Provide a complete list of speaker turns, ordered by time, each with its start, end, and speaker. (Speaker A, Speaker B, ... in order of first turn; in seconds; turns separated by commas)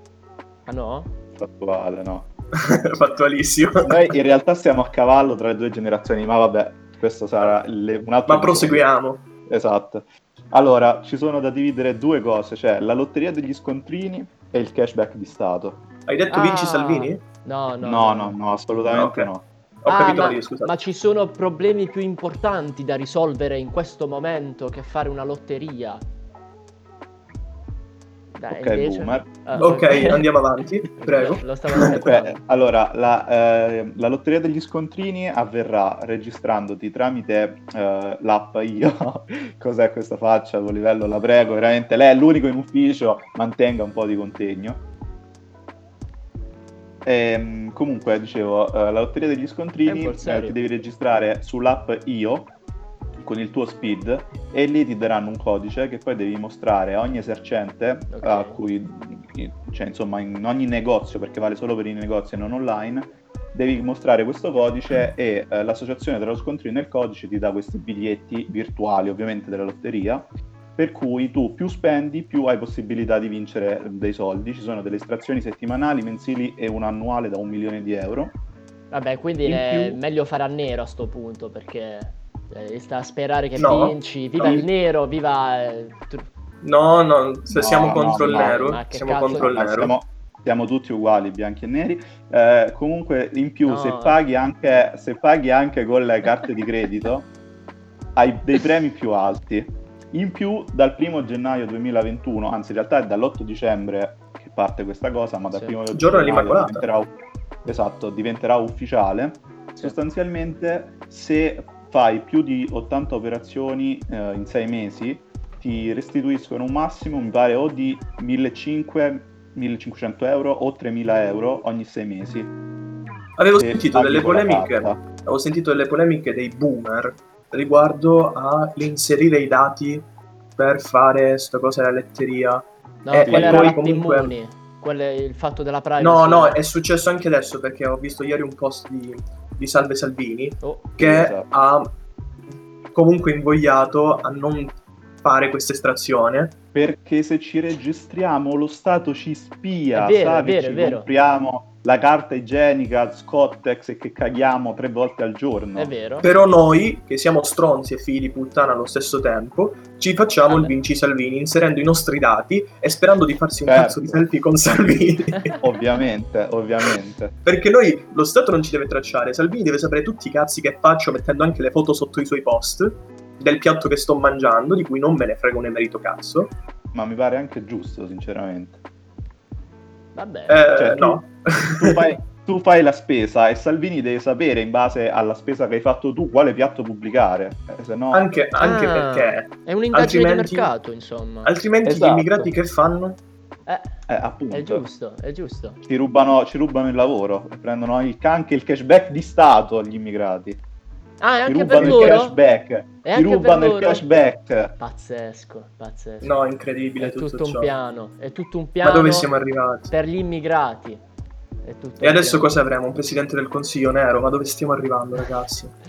Speaker A: 0.7-1.1, Speaker B: 1.3-2.3, Speaker C: 2.5-4.1, Speaker B: 3.8-8.9, Speaker C: 8.3-9.2, Speaker B: 9.5-15.8, Speaker C: 16.1-17.2, Speaker A: 16.3-18.4, Speaker B: 17.8-19.4, Speaker C: 18.9-19.3, Speaker C: 19.8-20.7, Speaker A: 19.9-26.0, Speaker A: 28.3-30.3, Speaker B: 28.5-30.2, Speaker C: 29.6-32.0, Speaker A: 31.0-32.6, Speaker B: 31.8-44.8, Speaker B: 47.0-52.5, Speaker A: 49.8-50.6, Speaker B: 53.2-78.4, Speaker A: 58.1-58.6, Speaker A: 78.9-86.3, Speaker B: 79.4-80.0, Speaker C: 83.5-84.7, Speaker C: 86.6-89.9, Speaker B: 87.5-97.3, Speaker A: 88.1-89.9, Speaker A: 93.7-94.2, Speaker B: 98.2-122.5, Speaker A: 105.5-105.8, Speaker C: 105.9-106.9, Speaker C: 123.4-130.1, Speaker B: 123.6-125.0, Speaker C: 130.6-134.3, Speaker A: 133.0-136.6, Speaker B: 133.3-133.8, Speaker C: 136.0-141.9, Speaker A: 140.6-140.9, Speaker B: 141.0-141.5, Speaker C: 142.9-146.5, Speaker B: 146.7-155.9, Speaker A: 149.9-151.1, Speaker A: 155.8-156.3, Speaker C: 156.2-165.6, Speaker A: 160.4-160.7, Speaker B: 163.7-164.2, Speaker B: 165.6-167.3, Speaker C: 167.4-176.5, Speaker B: 176.9-178.8, Speaker A: 180.1-180.6, Speaker C: 180.5-182.0, Speaker B: 180.8-188.3, Speaker C: 188.1-190.7, Speaker A: 188.6-191.5, Speaker C: 191.4-193.2, Speaker B: 191.8-192.5, Speaker A: 193.7-193.9, Speaker B: 194.1-194.8, Speaker A: 194.5-195.8, Speaker B: 195.8-200.6, Speaker A: 201.2-202.4, Speaker B: 201.4-204.8, Speaker C: 201.7-202.1, Speaker A: 203.0-204.2, Speaker A: 204.8-206.3, Speaker C: 206.2-207.7, Speaker A: 207.0-209.3, Speaker C: 208.8-209.9, Speaker A: 209.9-211.0, Speaker A: 211.6-212.6, Speaker C: 212.0-215.8